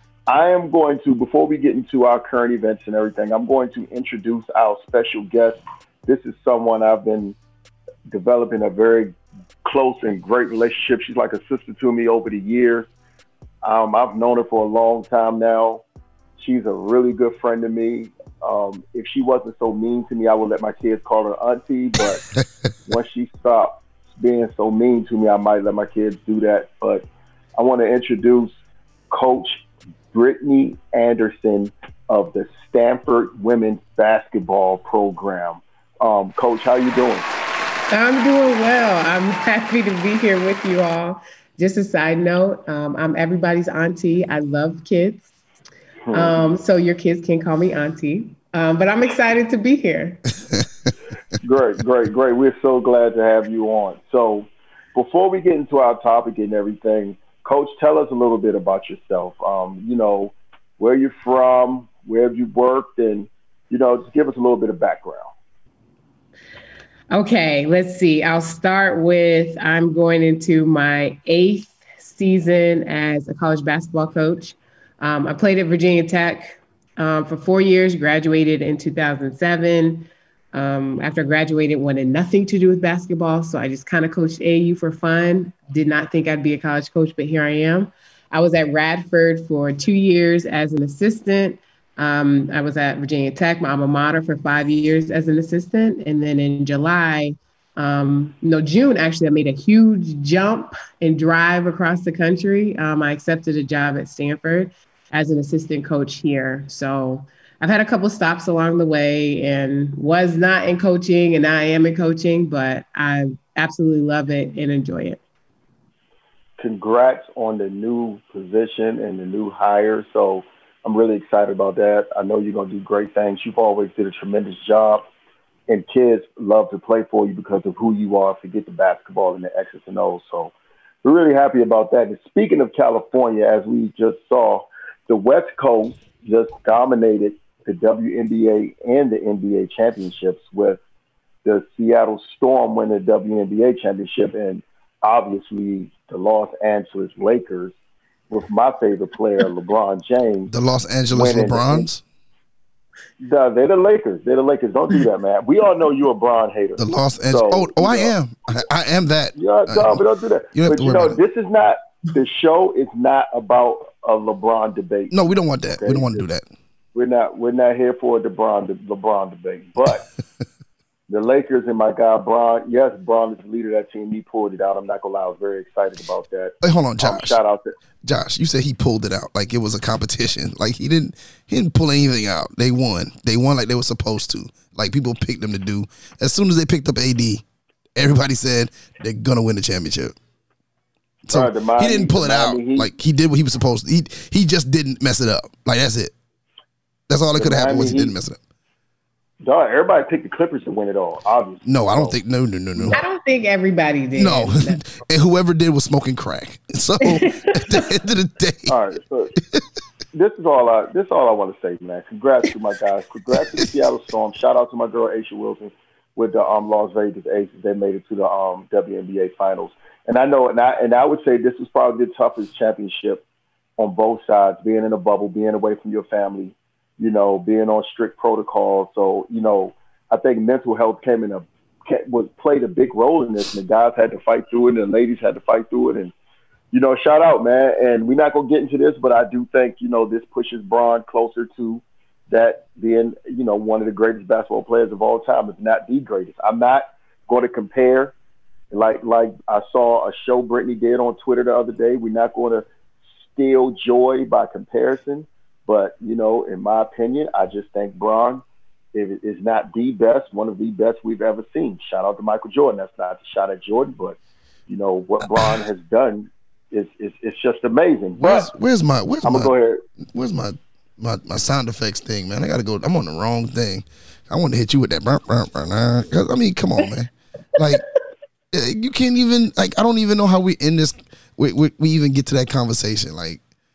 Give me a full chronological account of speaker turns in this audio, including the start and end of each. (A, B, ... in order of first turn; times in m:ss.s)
0:00.3-0:07.4 A
0:08.1-0:09.1 A
0:09.6-0:12.9 A
0:13.6-0:15.8 A
0:16.4-0:22.2 A
0:22.8-0:28.5 A
0:29.1-0:37.3 A
0:37.9-0:45.3 B
0:46.1-0:46.4 A
0:46.1-0:50.2 B
0:51.4-1:05.3 A
1:07.1-1:55.2 B
1:56.6-2:05.0 A
2:05.7-2:10.5 A
2:11.0-2:20.8 A
2:21.4-2:27.7 A
2:28.3-2:30.5 A
2:30.5-2:32.0 C
2:31.1-2:31.9 A
2:33.2-2:38.1 A
2:36.8-2:40.0 C
2:39.4-2:45.2 A
2:40.5-2:41.2 C
2:45.1-2:46.4 C
2:45.8-2:46.2 A
2:46.9-2:50.0 A
2:51.1-2:57.7 A
2:56.6-2:57.4 C
2:58.0-3:07.4 C
3:08.0-3:10.2 C
3:11.2-3:16.1 C
3:11.3-3:12.9 A
3:17.1-3:18.4 C
3:17.4-3:18.2 A
3:19.4-3:22.2 A
3:21.6-3:23.0 C
3:22.9-3:24.8 B
3:24.2-3:28.8 C
3:27.1-3:27.8 B
3:28.7-3:29.3 A
3:30.1-3:43.2 A
3:43.8-3:56.1 A
3:56.7-4:08.1 A
4:08.7-4:12.7 A
4:13.2-4:28.5 A
4:25.2-4:25.6 C
4:28.2-4:29.5 C
4:29.2-4:29.8 A
4:30.1-4:37.8 C
4:38.5-4:43.4 C